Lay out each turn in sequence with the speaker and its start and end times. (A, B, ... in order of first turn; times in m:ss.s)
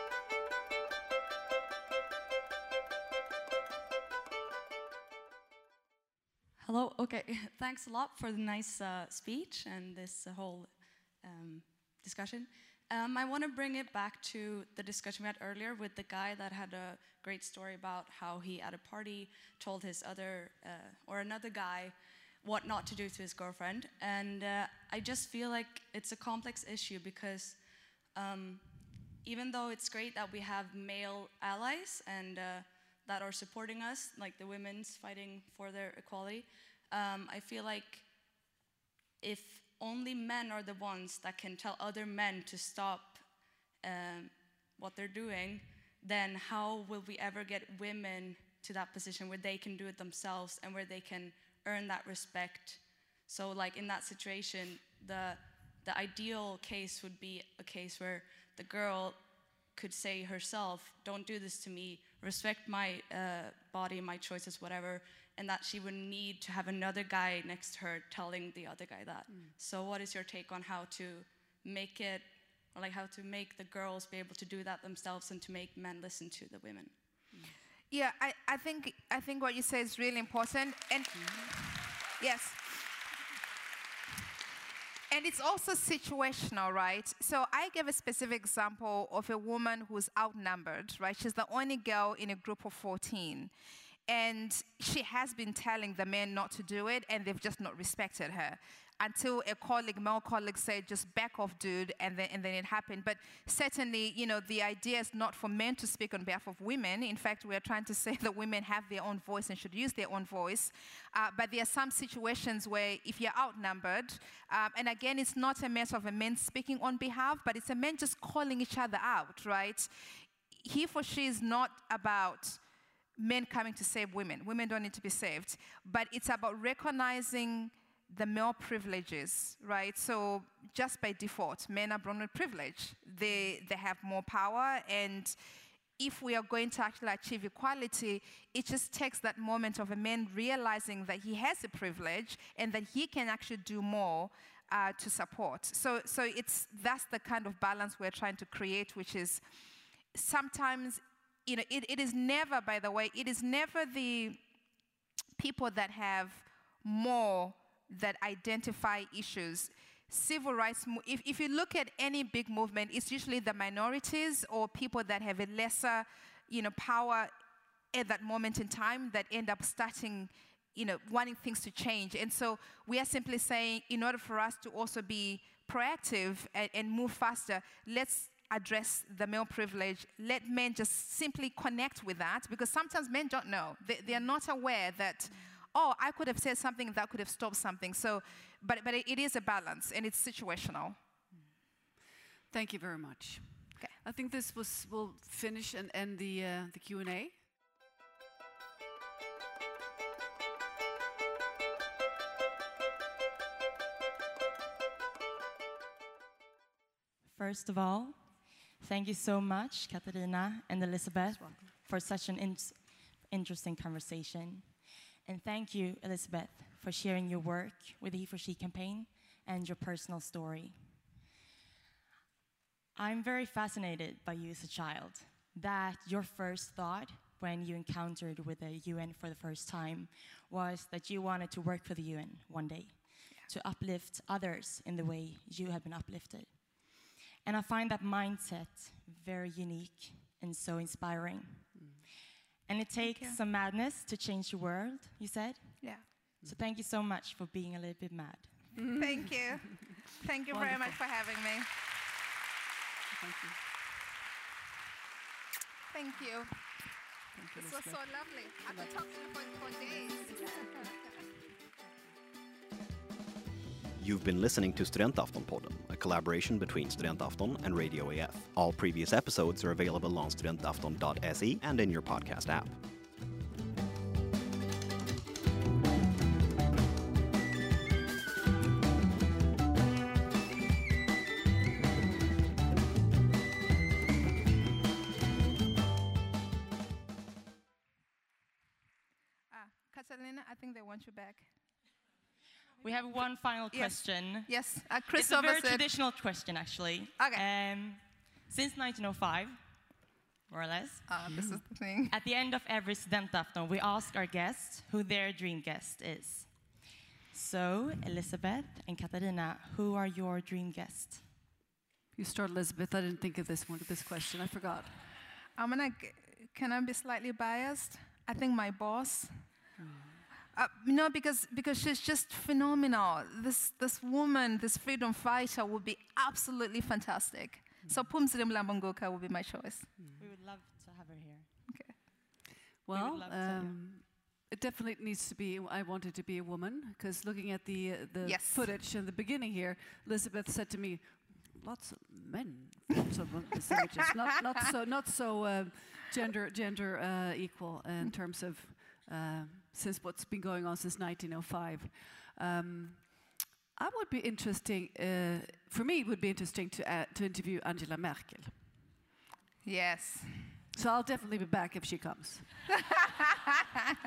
0:06.6-0:27.6 A
0:28.1-0:38.1 A
0:39.2-0:59.2 A
0:59.7-1:17.0 A
1:09.3-1:09.5 B
1:17.9-1:22.9 C
1:21.1-1:21.5 B
1:25.1-1:33.5 C
1:34.1-2:02.6 C
2:03.2-2:15.4 C
2:16.0-2:29.4 C
2:30.1-2:34.4 C
2:35.4-2:47.3 C
2:47.9-3:11.0 C
3:12.5-3:17.4 B
3:27.2-3:40.8 D
3:43.0-4:02.0 D
4:02.6-4:08.7 D
4:03.0-4:03.4 C
4:08.8-4:09.9 B
4:09.0-4:11.7 C
4:10.5-4:11.0 B
4:13.1-4:13.6 B
4:15.9-4:16.6 C
4:17.3-4:18.0 B
4:17.6-4:20.9 C
4:18.6-4:18.9 B
4:20.2-4:20.9 B
4:24.0-4:32.8 E
4:49.5-4:51.5 C
4:52.8-4:59.8 D
4:53.7-4:55.8 C
4:57.2-4:57.4 C
5:00.5-5:01.4 D
5:01.1-5:02.1 C
5:01.3-5:01.6 B
5:02.1-5:06.8 D
5:07.3-5:11.3 D
5:12.1-5:15.0 B
5:15.6-5:19.5 C
5:19.8-5:20.3 B
5:20.5-5:29.9 C
5:30.0-5:30.3 B
5:30.2-5:31.5 D
5:31.7-5:31.9 C
5:32.8-5:58.8 B
5:32.9-5:33.7 D
5:38.2-5:38.7 C
5:59.6-6:00.6 C
6:00.7-6:02.6 B